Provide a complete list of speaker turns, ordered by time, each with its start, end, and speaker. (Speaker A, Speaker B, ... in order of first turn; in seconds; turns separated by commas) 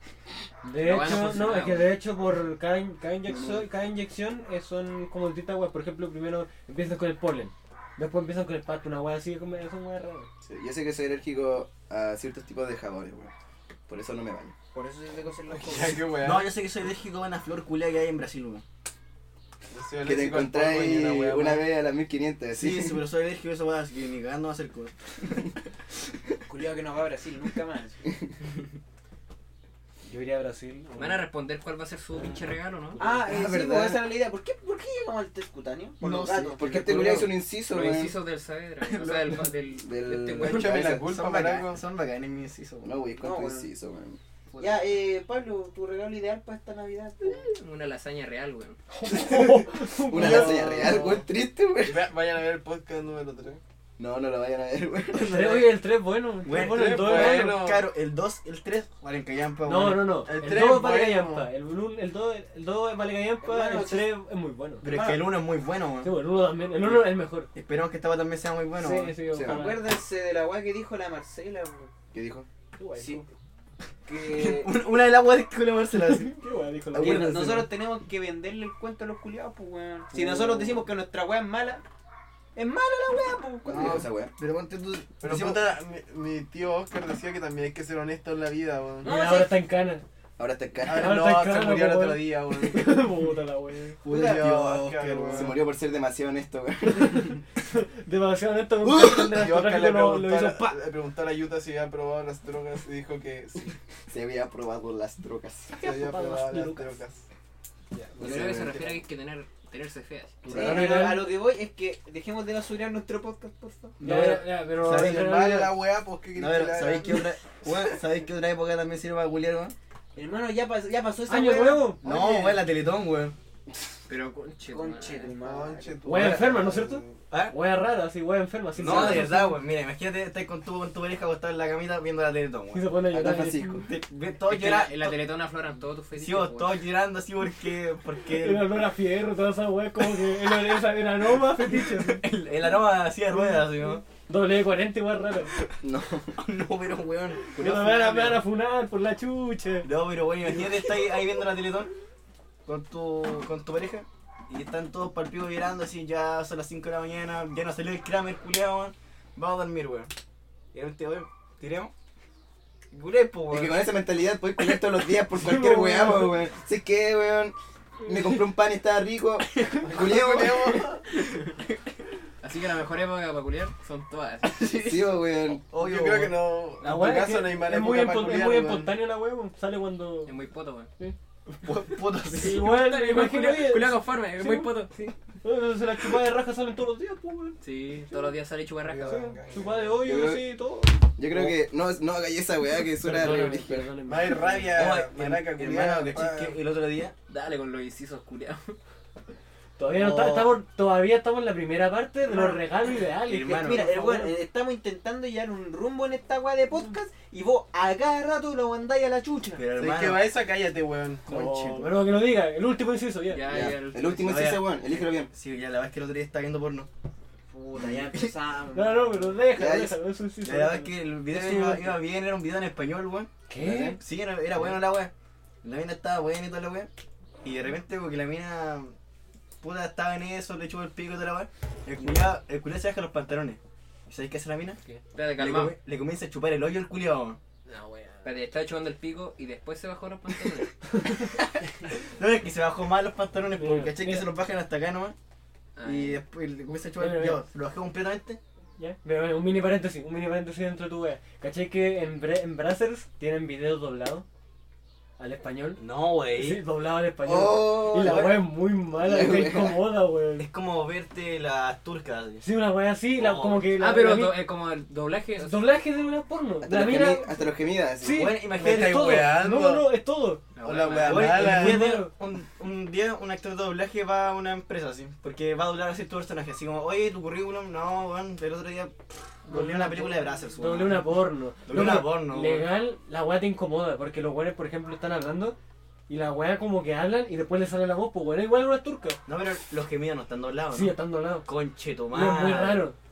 Speaker A: 0.6-10.3, Speaker B: 0.8-2.0, Speaker C: 10.4-13.3, Speaker C: 13.9-14.5, Speaker D: 14.7-16.2, Speaker E: 15.5-16.5, Speaker F: 16.2-18.6, Speaker E: 19.7-21.7, Speaker C: 20.0-23.0, Speaker F: 22.5-25.5, Speaker D: 26.5-28.0, Speaker A: 30.1-31.3, Speaker B: 31.0-33.0, Speaker D: 33.0-36.6, Speaker A: 33.0-33.2, Speaker C: 33.1-34.0, Speaker F: 36.0-37.4, Speaker C: 36.6-38.2, Speaker B: 37.6-41.0, Speaker F: 38.9-39.5, Speaker C: 39.8-41.1, Speaker E: 40.4-41.9, Speaker F: 41.0-43.0, Speaker C: 42.8-44.2, Speaker D: 43.2-43.7, Speaker D: 44.6-47.5, Speaker B: 47.2-48.8, Speaker A: 48.9-50.9, Speaker C: 50.1-52.1, Speaker E: 50.1-51.3, Speaker E: 51.8-53.6, Speaker C: 54.0-55.5, Speaker F: 55.1-55.8, Speaker A: 55.2-57.6, Speaker F: 56.5-60.2, Speaker E: 56.5-57.9, Speaker A: 59.6-64.8, Speaker E: 60.2-61.5, Speaker D: 63.4-64.1, Speaker F: 64.8-66.2, Speaker D: 64.8-65.3, Speaker A: 66.0-67.5, Speaker F: 66.8-69.3, Speaker A: 68.8-69.9, Speaker C: 69.3-69.6, Speaker D: 69.4-71.9, Speaker C: 72.1-72.5, Speaker A: 72.8-73.3, Speaker D: 73.0-73.2, Speaker D: 74.1-74.8, Speaker F: 74.2-76.4, Speaker A: 76.3-77.5, Speaker F: 76.9-77.7, Speaker D: 77.0-81.8, Speaker F: 80.1-80.8, Speaker D: 82.5-83.8, Speaker C: 83.6-84.3, Speaker F: 83.7-85.7, Speaker E: 85.2-89.1, Speaker D: 89.0-89.6, Speaker A: 89.0-90.0, Speaker C: 90.4-91.2, Speaker E: 90.8-93.1, Speaker A: 90.9-94.0, Speaker F: 94.0-95.6, Speaker E: 94.0-95.6, Speaker C: 95.3-97.3, Speaker A: 96.9-100.8, Speaker C: 98.8-99.1, Speaker E: 99.2-103.8, Speaker C: 104.1-105.7, Speaker E: 105.7-107.2, Speaker A: 105.8-107.0, Speaker A: 107.9-108.5, Speaker C: 108.2-108.9, Speaker B: 108.2-110.4, Speaker A: 110.4-111.3, Speaker C: 110.5-110.9, Speaker D: 110.5-114.0, Speaker F: 114.0-115.4, Speaker A: 114.0-115.8, Speaker E: 114.8-117.9, Speaker F: 116.3-119.7, Speaker D: 120.1-122.0, Speaker A: 121.3-122.1, Speaker F: 122.0-123.3, Speaker B: 124.1-125.3, Speaker D: 124.7-126.1, Speaker E: 125.4-127.2, Speaker A: 126.0-129.6, Speaker F: 126.1-126.4, Speaker F: 127.3-127.5, Speaker F: 128.8-132.9, Speaker B: 128.8-129.3, Speaker A: 132.7-133.9, Speaker C: 133.1-133.9, Speaker F: 133.9-135.2, Speaker B: 134.4-136.9, Speaker F: 136.2-138.8, Speaker A: 138.3-142.3, Speaker F: 141.6-144.0, Speaker A: 144.1-145.5, Speaker C: 145.8-146.4, Speaker F: 146.4-148.5, Speaker A: 147.6-149.9, Speaker F: 149.8-151.9, Speaker F: 152.7-160.1, Speaker F: 160.7-161.9, Speaker F: 162.9-163.8, Speaker C: 163.5-170.8, Speaker A: 165.3-166.4, Speaker F: 169.7-170.2, Speaker E: 169.9-171.0, Speaker B: 172.4-174.6, Speaker F: 174.4-176.5, Speaker C: 174.8-175.6, Speaker E: 175.7-178.9, Speaker A: 176.8-180.3, Speaker B: 180.2-180.9, Speaker F: 181.5-182.6, Speaker B: 182.4-185.2, Speaker A: 182.4-184.8, Speaker A: 185.4-188.4, Speaker B: 187.6-189.3, Speaker E: 188.8-190.0, Speaker A: 189.0-191.5, Speaker C: 190.0-190.6, Speaker C: 191.2-193.9, Speaker A: 193.0-194.6, Speaker E: 194.1-196.6, Speaker F: 194.6-197.1, Speaker B: 197.3-198.8, Speaker A: 199.8-204.3, Speaker F: 199.9-200.6, Speaker D: 202.3-202.6, Speaker F: 203.2-204.0, Speaker D: 203.6-209.7, Speaker F: 209.6-210.4, Speaker E: 209.7-211.6, Speaker F: 211.2-212.1, Speaker A: 211.3-213.4, Speaker B: 213.3-214.5, Speaker C: 213.5-215.3, Speaker F: 214.2-216.9, Speaker D: 217.5-219.4, Speaker F: 217.9-218.3, Speaker A: 218.7-222.0, Speaker C: 219.5-220.0, Speaker F: 220.4-223.3, Speaker A: 223.5-224.0, Speaker C: 223.6-224.0, Speaker F: 224.0-225.1, Speaker F: 225.6-226.9, Speaker F: 227.4-228.9, Speaker F: 229.6-234.8, Speaker D: 232.0-232.3, Speaker B: 235.1-235.8, Speaker F: 235.3-237.4, Speaker A: 237.7-238.1, Speaker B: 238.2-240.7, Speaker A: 240.9-241.3, Speaker F: 241.4-245.2, Speaker A: 243.5-244.3, Speaker B: 245.8-246.2, Speaker F: 245.8-248.4, Speaker A: 247.0-247.4, Speaker A: 248.8-254.3, Speaker A: 255.2-260.5, Speaker F: 255.8-256.6, Speaker C: 257.2-259.8, Speaker F: 257.9-258.4, Speaker F: 260.4-262.4, Speaker A: 262.4-264.4, Speaker F: 263.1-263.7, Speaker B: 263.8-265.7, Speaker A: 265.4-267.4, Speaker C: 266.6-268.3, Speaker A: 268.0-270.4, Speaker F: 268.1-269.1, Speaker E: 268.6-270.0, Speaker B: 270.6-271.3, Speaker E: 270.6-272.0, Speaker F: 271.0-282.7, Speaker A: 271.1-272.1, Speaker A: 279.5-285.6, Speaker A: 286.1-289.2, Speaker F: 289.3-292.9, Speaker A: 290.7-291.5, Speaker A: 292.1-293.0